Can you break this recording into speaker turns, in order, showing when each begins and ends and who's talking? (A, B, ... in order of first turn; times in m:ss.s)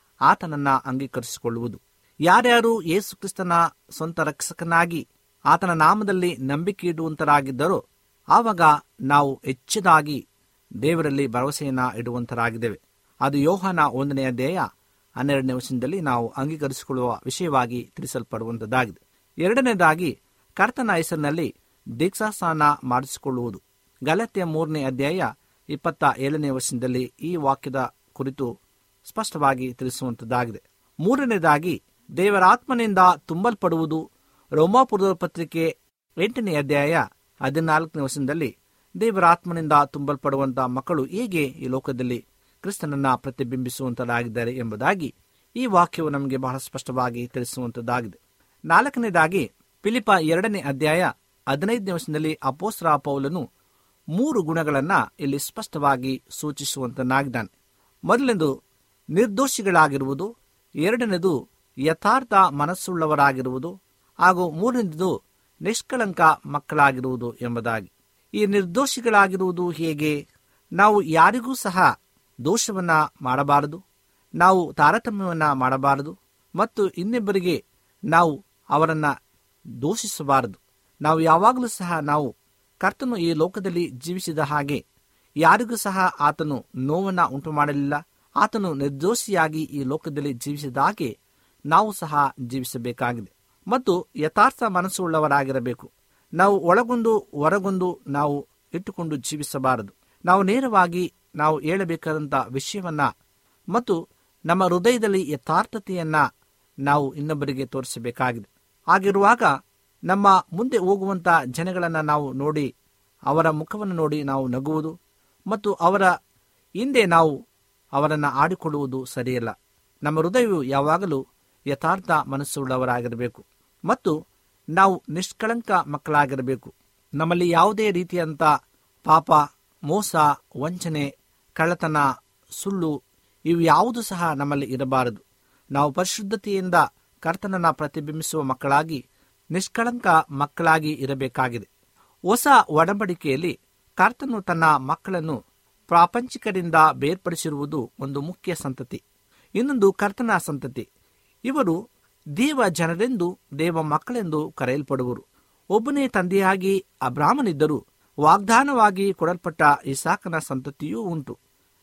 0:00.3-0:07.8 A
0:08.3-0:10.2 A
0:10.8-0:14.7 A
0:15.2-0:28.5 A
0:29.0-0:34.0 A
0:34.6-0:48.2 A
0:48.7-0:53.4 A
0:54.2-0:57.5 A
0:58.1-0:58.5 A
0:59.2-1:00.3 A
1:00.8-1:03.7 A
1:04.2-1:05.1 A
1:05.6-1:10.2 A
1:10.8-1:11.9 A
1:12.4-1:13.8 A
1:14.4-1:17.6 A
1:18.1-1:19.1 A
1:19.8-1:22.3 A
1:22.8-1:24.8 A
1:25.4-1:31.1 A
1:31.7-1:43.1 A
1:44.5-1:46.2 A
1:46.8-1:49.5 A
1:50.1-1:52.7 A
1:53.3-1:55.0 A
1:55.5-1:56.1 A
1:56.8-1:57.3 A
1:58.0-2:04.2 A
2:04.8-2:08.5 A
2:09.1-2:12.1 A
2:12.6-2:13.0 A
2:13.5-2:15.2 A
2:15.7-2:19.0 A
2:19.5-2:21.7 A
2:22.3-2:25.4 A
2:25.9-2:29.0 A
2:29.6-2:30.9 A
2:31.5-2:31.8 A
2:32.4-2:35.2 A
2:35.7-2:41.4 A